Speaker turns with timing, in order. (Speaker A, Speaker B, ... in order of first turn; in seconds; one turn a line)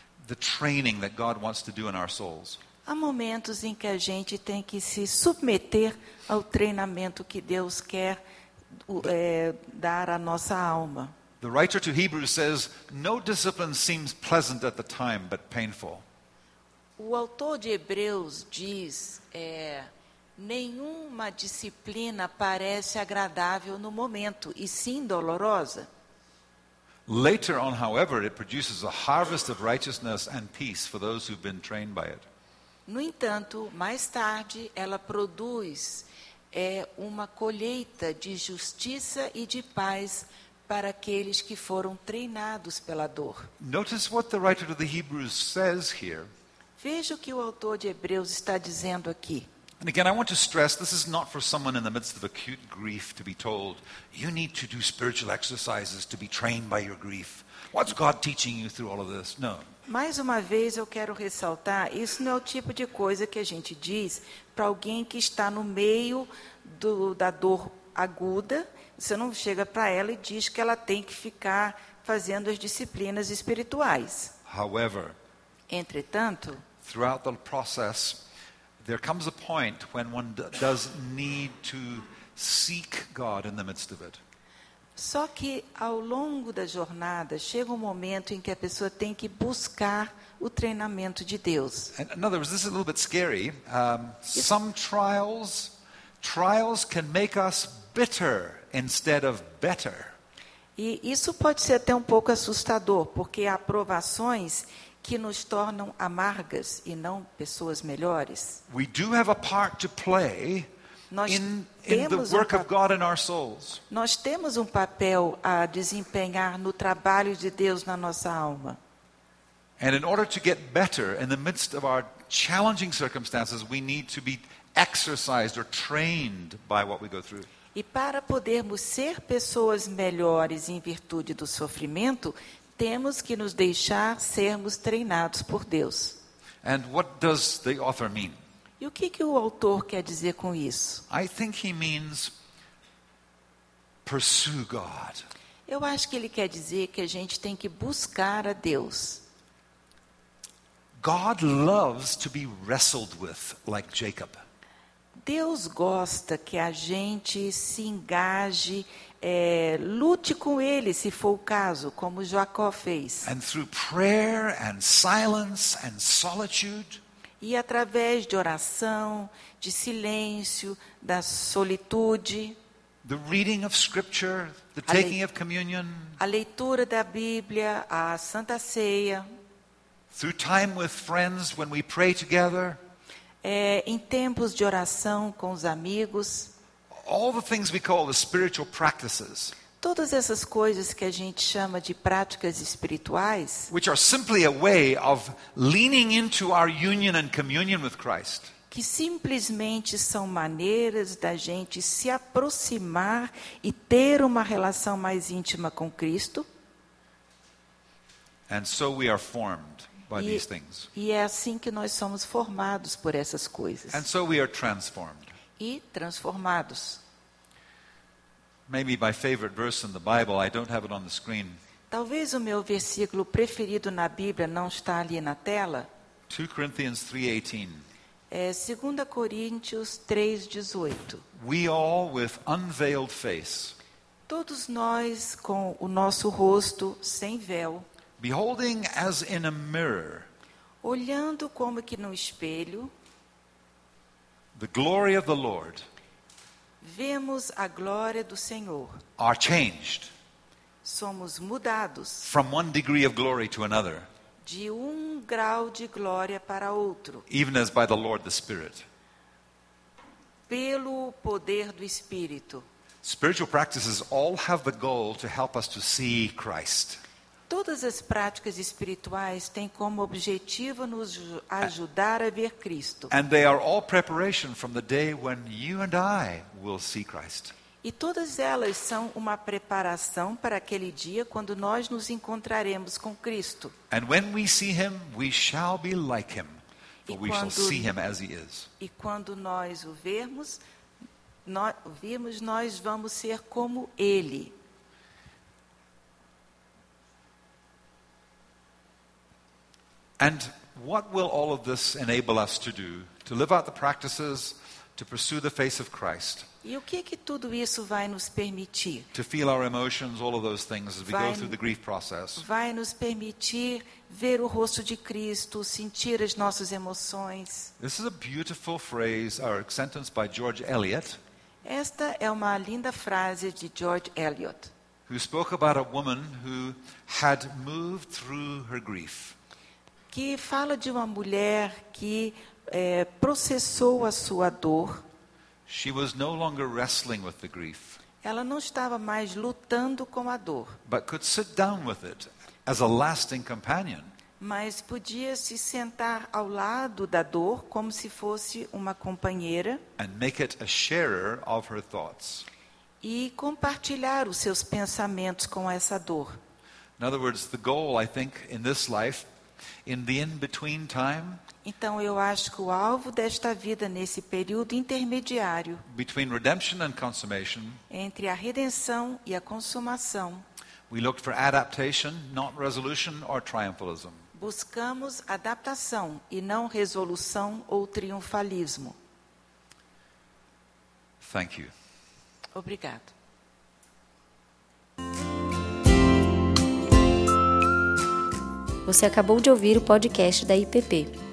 Speaker A: 0.2-2.6
Speaker B: 2.9-8.2
Speaker B: 8.9-11.1
Speaker A: 11.4-16.0
Speaker B: 17.0-25.9
Speaker A: 27.1-32.2
Speaker B: 32.9-43.5
Speaker A: 43.6-46.3
Speaker B: 46.8-49.5
Speaker A: 49.8-59.7
Speaker B: 59.9-74.3
Speaker A: 74.5-75.2
Speaker B: 75.7-76.6
Speaker A: 76.8-78.2
Speaker A: 78.8-84.2
Speaker B: 85.0-91.9
Speaker A: 91.9-100.1
Speaker B: 100.8-108.6
Speaker A: 108.7-110.7
Speaker B: 111.1-112.7
Speaker A: 111.3-113.8
Speaker B: 113.9-118.8
Speaker A: 119.8-127.5
Speaker B: 127.7-136.2
Speaker A: 136.6-138.4
Speaker B: 138.8-141.0
Speaker A: 141.1-142.3
Speaker A: 144.1-145.2
Speaker B: 145.7-149.2
Speaker A: 151.0-154.4
Speaker B: 155.2-163.3
Speaker A: 163.2-167.0
Speaker B: 167.4-172.6
Speaker A: 173.0-176.2
Speaker B: 174.9-175.2
Speaker B: 176.2-179.2
Speaker A: 180.1-182.8
Speaker B: 183.4-186.5
Speaker A: 186.9-189.6
Speaker B: 189.8-193.7
Speaker A: 193.7-198.5
Speaker B: 198.7-206.4
Speaker A: 208.5-210.9
Speaker B: 210.2-210.4
Speaker B: 210.9-214.0
Speaker A: 213.9-215.3
Speaker B: 215.6-217.0
Speaker A: 218.7-221.6
Speaker B: 221.9-225.9
Speaker A: 226.3-227.8
Speaker B: 228.3-231.2
Speaker A: 231.3-233.7
Speaker B: 234.3-237.8
Speaker A: 238.2-240.3
Speaker B: 240.8-242.9
Speaker A: 244.5-245.8
Speaker B: 246.8-249.0
Speaker A: 249.2-250.1
Speaker B: 250.8-252.3
Speaker A: 252.2-254.1
Speaker B: 254.4-257.3
Speaker A: 257.3-258.8
Speaker B: 260.5-262.6
Speaker A: 263.0-267.0
Speaker B: 267.5-273.1
Speaker A: 273.1-277.5
Speaker B: 277.8-283.7
Speaker A: 283.9-288.7
Speaker B: 287.1-287.9
Speaker B: 288.8-290.6
Speaker B: 291.4-294.5
Speaker A: 300.2-306.5
Speaker B: 306.6-309.1
Speaker A: 309.1-312.4
Speaker B: 311.1-311.6
Speaker B: 312.4-317.7
Speaker A: 317.8-321.2
Speaker B: 321.6-324.7
Speaker A: 325.1-329.3
Speaker B: 330.1-335.0
Speaker A: 335.7-338.0
Speaker B: 338.2-340.8
Speaker A: 340.8-344.1
Speaker B: 344.4-349.8
Speaker A: 350.0-352.4
Speaker B: 353.0-356.4
Speaker A: 357.0-359.3
Speaker A: 359.8-361.4
Speaker B: 361.6-365.8
Speaker A: 365.9-367.8
Speaker B: 367.9-370.4
Speaker A: 370.9-374.2
Speaker B: 374.3-378.9
Speaker A: 381.2-381.7
Speaker B: 382.6-383.1
Speaker C: 388.9-391.1